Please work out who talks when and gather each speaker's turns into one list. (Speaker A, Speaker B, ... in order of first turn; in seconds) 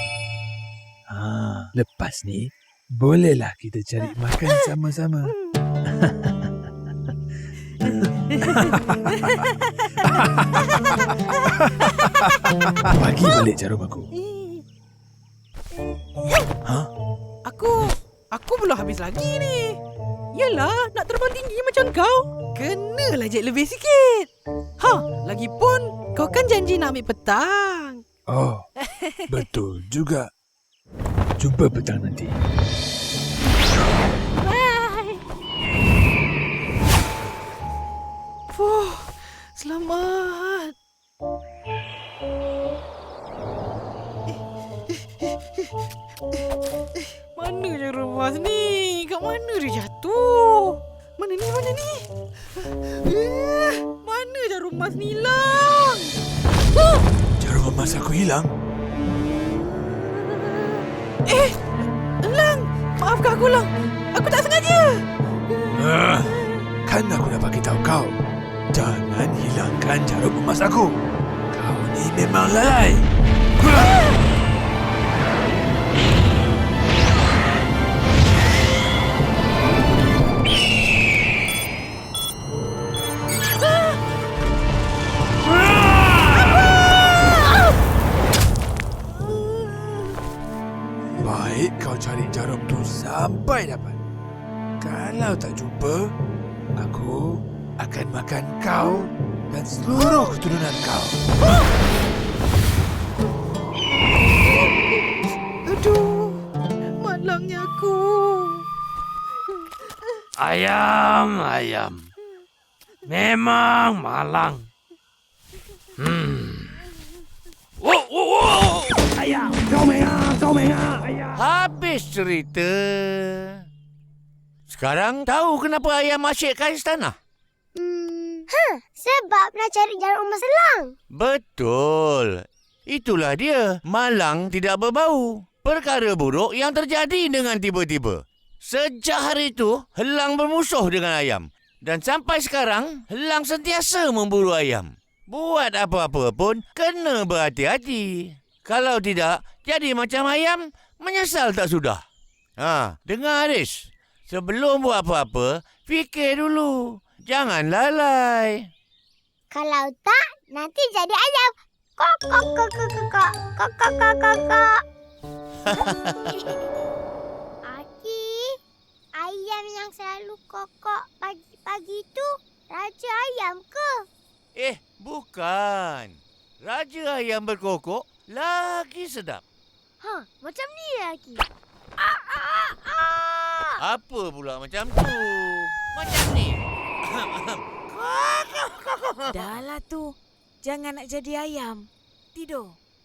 Speaker A: 1.1-6.7, 7.8-9.2, 12.8-14.1, 16.6-16.9, 28.3-28.6, 29.3-30.3, 31.4-32.4, 57.4-58.5, 65.7-68.2, 68.7-71.0, 71.5-73.1, 91.2-94.0, 94.8-96.1, 96.7-101.6
Speaker B: 4.0-4.7, 5.2-5.6, 7.8-12.6, 14.1-14.6, 17.4-19.8, 20.3-28.0, 28.9-29.3, 34.4-35.2, 38.5-40.7, 44.9-45.7, 47.0-52.1, 52.6-56.2, 59.5-61.6, 62.2-65.1, 66.3-66.6, 104.4-105.1, 105.7-106.5, 107.0-108.7, 109.5-110.2
Speaker C: 110.4-112.1, 113.1-114.7, 116.0-116.8, 117.8-121.4
Speaker D: 121.3-123.6, 124.7-127.2, 131.1-152.0, 152.6-158.7, 165.8-166.2, 174.6-179.4, 183.8-189.6
Speaker E: 127.8-130.9, 159.5-164.8, 165.7-166.4, 167.7-168.6, 169.2-174.0, 180.0-181.4, 182.0-183.8
Speaker F: 189.5-190.1, 190.7-192.8